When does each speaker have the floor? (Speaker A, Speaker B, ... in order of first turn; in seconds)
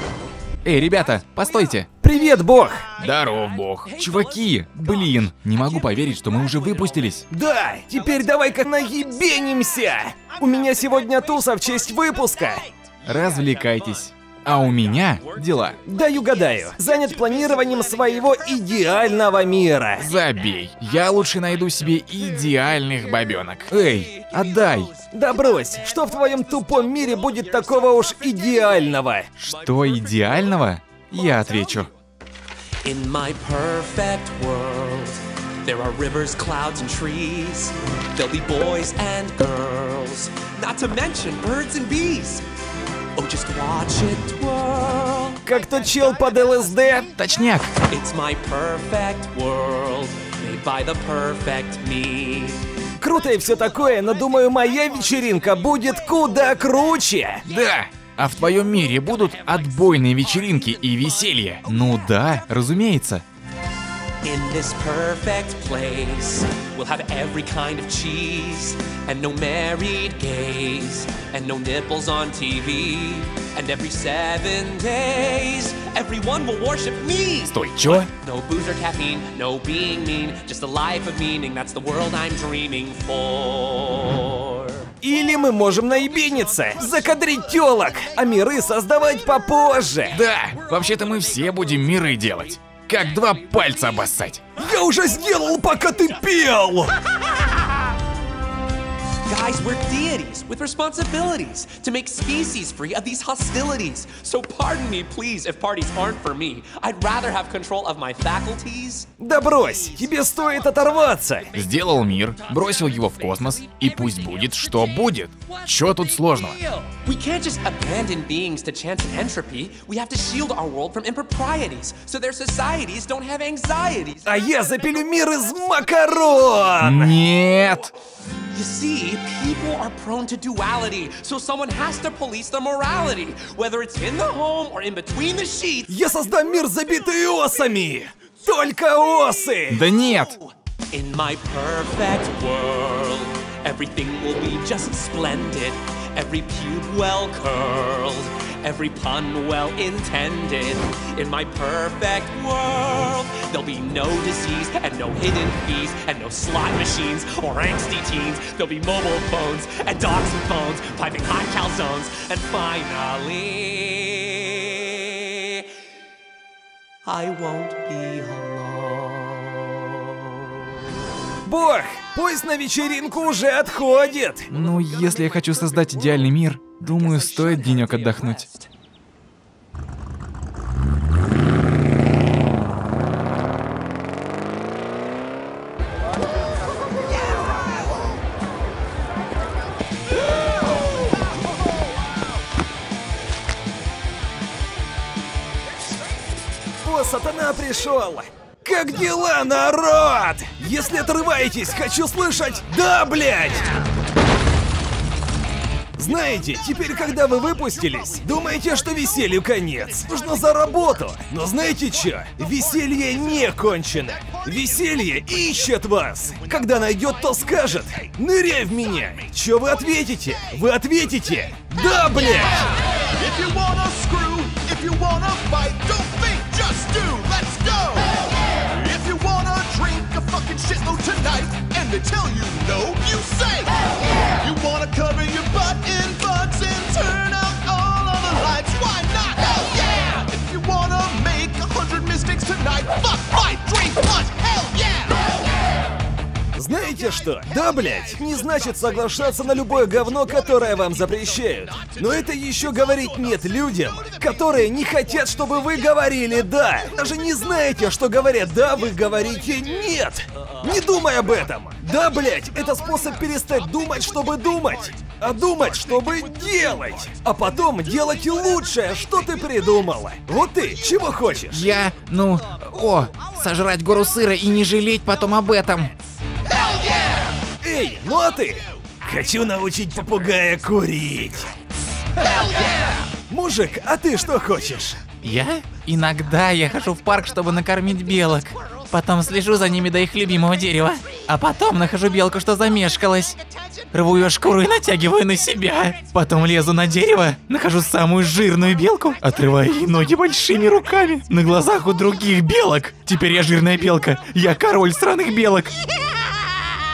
Speaker A: 0.6-1.9, 2.9-7.2, 13.0-15.8, 19.9-24.9, 29.4-31.9, 47.1-47.7, 57.4-63.2, 77.5-78.1, 90.1-94.4, 111.5-116.6, 126.8-127.9, 139.7-140.3, 174.5-178.5, 271.5-275.9, 285.2-293.4, 293.9-305.8
Speaker B: 2.0-3.0, 7.3-12.7, 15.8-20.1, 25.1-29.3, 45.4-47.1, 53.0-57.4, 85.0-90.2, 94.5-97.0, 109.2-111.5, 124.2-127.2, 135.9-139.8, 171.4-174.5, 196.8-203.7, 205.9-222.8, 246.5-271.7, 277.6-281.5, 283.3-285.0
Speaker C: 3.0-7.2, 13.0-16.0, 16.7-18.0, 23.3-31.9, 32.8-42.4, 43.1-45.4, 47.8-52.6, 64.2-84.9, 90.2-94.1, 99.2-109.1, 109.7-124.4, 128.5-136.0, 139.9-165.7, 167.0-170.8, 174.5-178.7
Speaker D: 212.4-218.1, 222.9-245.3, 247.8-259.8, 261.8-267.3, 267.9-269.5, 270.9-271.3, 282.3-282.9